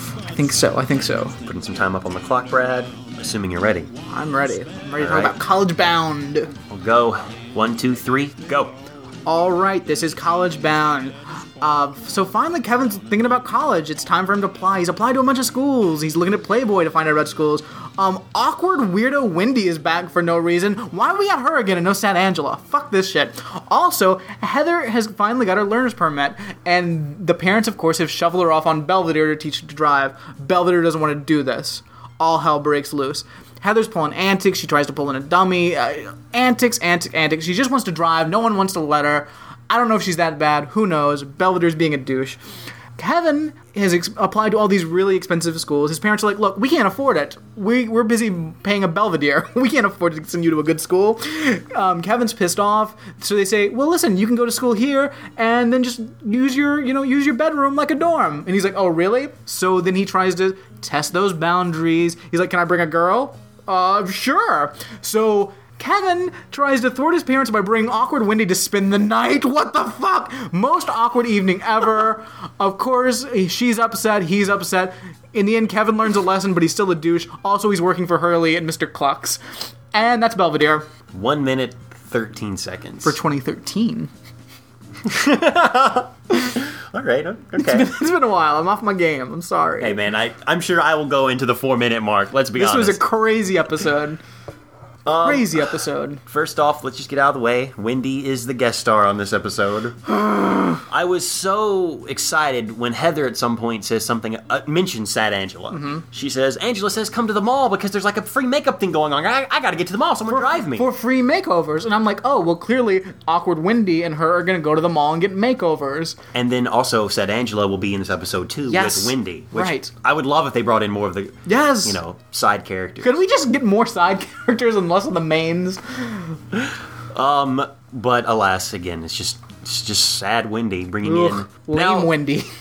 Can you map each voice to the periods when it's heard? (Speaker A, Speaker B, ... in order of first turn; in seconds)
Speaker A: 0.2-1.4, 4.1-6.5, 9.3-42.4, 43.0-79.4, 79.9-80.9, 83.0-84.1, 87.6-90.0, 92.6-94.2, 95.2-96.2, 100.2-100.8, 105.7-106.0, 110.3-116.2, 118.7-119.9, 121.5-122.0, 123.0-126.4, 131.0-132.5
Speaker B: 1.4-3.9, 5.0-5.4, 6.7-8.8, 81.1-83.2, 85.0-87.9, 89.8-93.0, 95.0-95.7, 96.3-100.0, 100.9-110.9, 116.3-123.2, 127.1-132.1